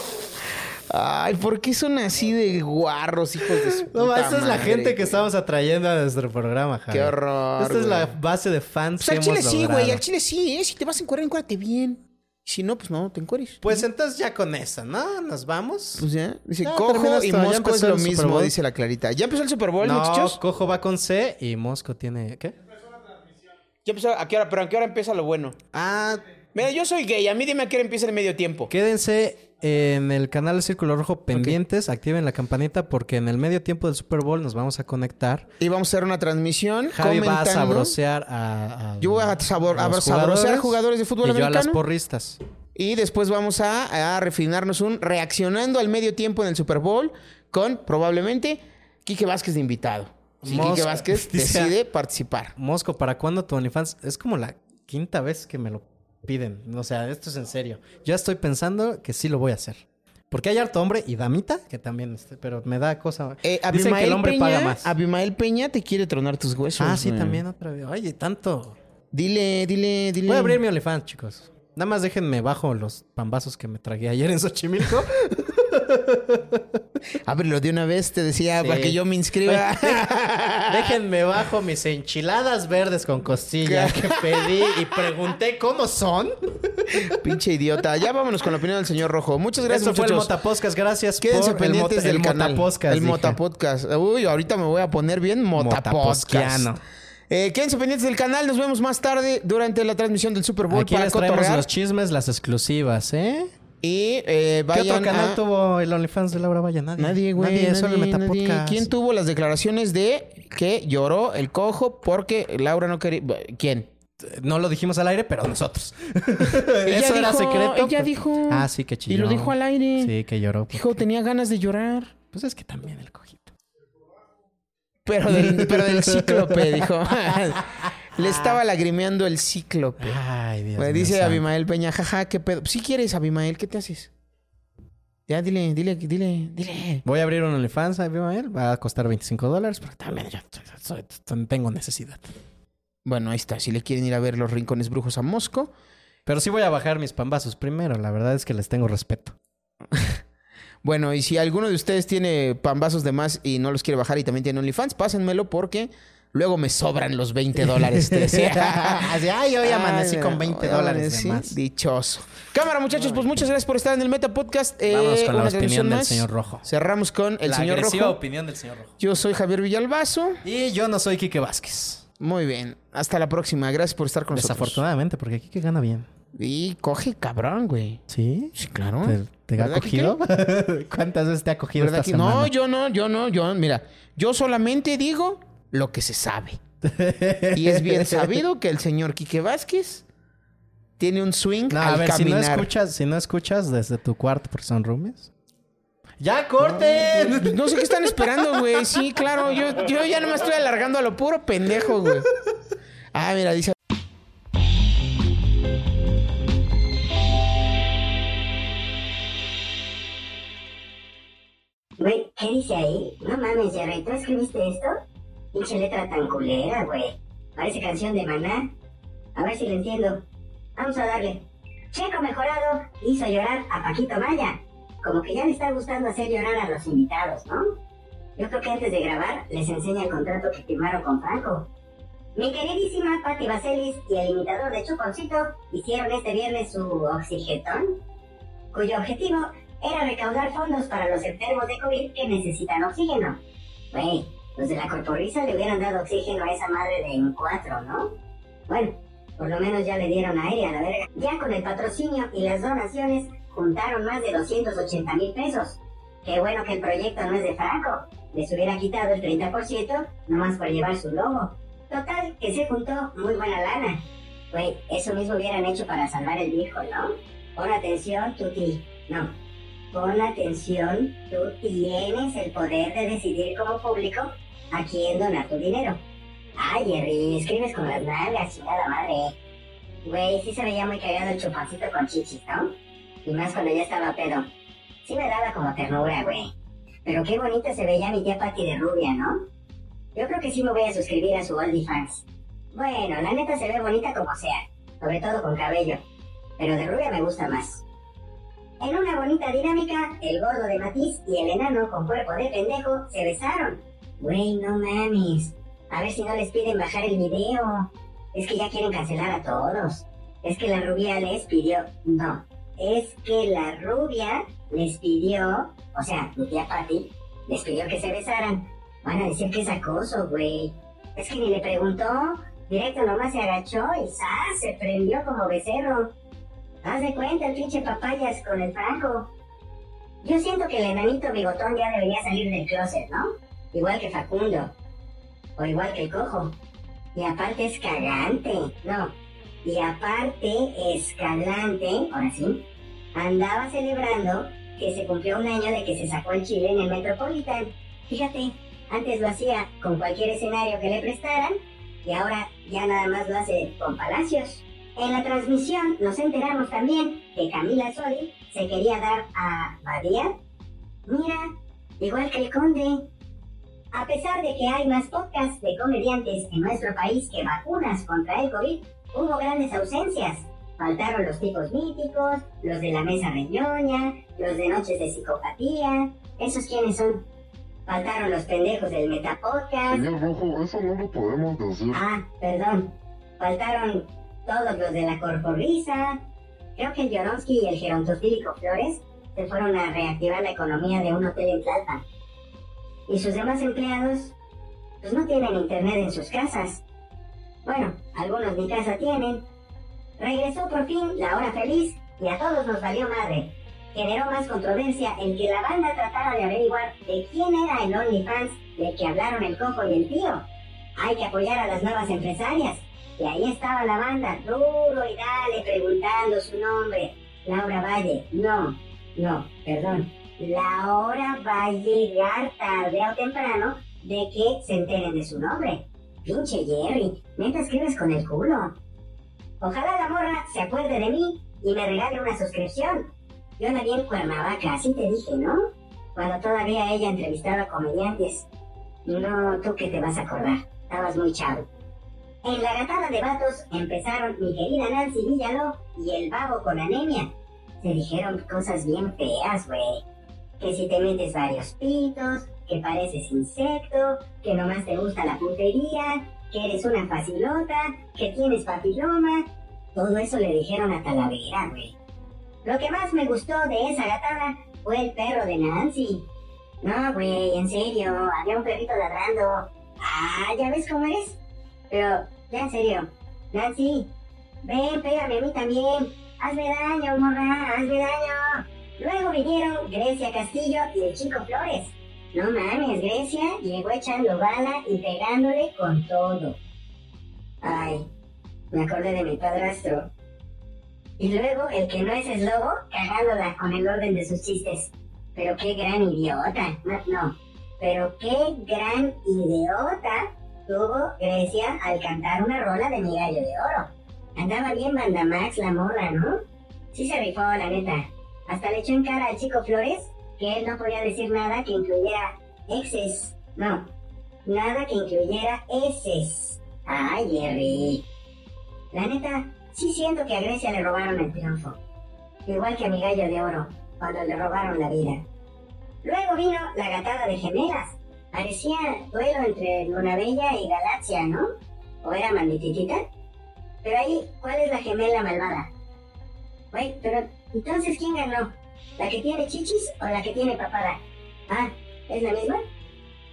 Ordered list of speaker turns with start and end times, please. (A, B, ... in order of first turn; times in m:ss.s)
0:00.9-0:05.3 A
0:03.9-0:10.0 B
0:06.9-0:08.2 A
0:09.0-0:13.9 A
0:13.6-0:16.1 B
0:16.0-0:20.4 A
0:16.6-0:18.5 B
0:19.8-0:22.5 B
0:23.8-0:25.6 A
0:25.7-0:26.2 B
0:26.5-0:28.7 A
0:28.7-0:35.5 B
0:31.3-0:31.6 A
0:35.6-0:38.0 A
0:36.9-0:42.4 B
0:39.0-0:41.8 A
0:42.8-0:52.5 A
0:50.4-0:51.8 B
0:52.6-1:04.9 B
1:03.4-1:07.4 A
1:06.8-1:08.8 B
1:09.1-1:10.6 A
1:10.3-1:16.6 B
1:17.2-1:21.0 A
1:18.6-1:20.1 B
1:20.7-1:27.1 B
1:23.6-1:24.7 A
1:27.2-1:30.3 A
1:29.6-1:33.4 B
1:31.2-1:36.7 A
1:35.6-1:36.8 B
1:37.3-1:41.7 A
1:40.7-1:43.5 B
1:43.8-1:45.4 A
1:44.7-1:48.9 B
1:47.0-1:53.9 A
1:54.2-2:01.0 B
1:56.8-2:00.1 A
2:00.7-2:02.2 A
2:02.3-2:03.5 B
2:05.1-2:10.2 A
2:05.3-2:06.9 B
2:08.2-2:08.6 B
2:10.0-2:11.4 B
2:10.8-2:14.1 A
2:15.3-2:17.0 A
2:17.0-2:22.3 B
2:23.0-2:25.7 A
2:26.3-2:29.4 B
2:30.8-2:48.2 A
2:37.7-2:41.6 B
2:42.9-2:43.4 B
2:44.9-2:46.7 B
2:47.4-2:49.0 B
2:49.0-2:50.4 A
2:50.4-2:52.0 B
2:52.2-2:54.8 A
2:54.3-2:56.1 B
2:56.4-2:58.0 A
2:58.1-3:02.5 B
2:58.6-3:00.2 A
3:01.8-3:06.6 A
3:06.8-3:08.4 B
3:07.5-3:10.1 A
3:11.0-3:12.7 A
3:11.7-3:15.3 B
3:16.2-3:17.6 B
3:16.6-3:22.3 A
3:18.3-3:18.8 B
3:23.1-3:23.8 A
3:32.0-3:34.9 C
3:35.5-3:38.7 C
3:39.4-3:40.2 C
3:40.8-3:47.8 C
3:48.4-3:51.7 C
3:52.4-3:58.0 C
3:58.7-4:03.4 C
4:03.9-4:08.1 C
4:08.7-4:29.4 C
4:29.9-4:36.0 C
4:36.6-4:39.3 C
4:40.0-4:42.7 C
4:43.3-4:44.5 C
4:45.0-4:46.5 C
4:47.0-4:49.4 C
4:50.2-4:56.0 C
4:56.6-4:57.8 C
4:58.8-5:26.1 C
5:26.8-5:29.3 C
5:30.2-5:34.7 C
5:35.6-5:36.6 C
5:37.2-5:42.6 C
5:43.2-6:00.4 C
6:01.1-6:03.1 C
6:03.9-6:17.2 C
6:17.9-6:20.0 C
6:19.9-6:22.0 D
6:21.9-6:26.2 C
6:26.8-6:32.0 C
6:33.1-6:34.3 C
6:35.0-6:36.8 C
6:37.6-6:39.5 C
6:40.2-6:50.4 C
6:51.0-7:08.8 C
7:09.6-7:15.6 C
7:16.2-7:18.5 C
7:19.1-7:21.7 C
7:22.4-7:30.0 C
7:30.6-7:42.0 C
7:42.6-7:46.3 C
7:46.8-7:51.4 C
7:51.9-7:54.1 C
7:54.6-8:06.6 C
8:07.6-8:08.1 C
8:08.7-8:10.1 C
8:11.2-8:26.4 C
8:26.9-8:33.9 C
8:34.5-8:38.0 C
8:38.9-8:41.8 C
8:42.5-8:45.2 C
8:46.0-8:51.5 C
8:52.0-8:53.0 C
8:53.8-8:55.7 C
8:56.7-9:02.6 C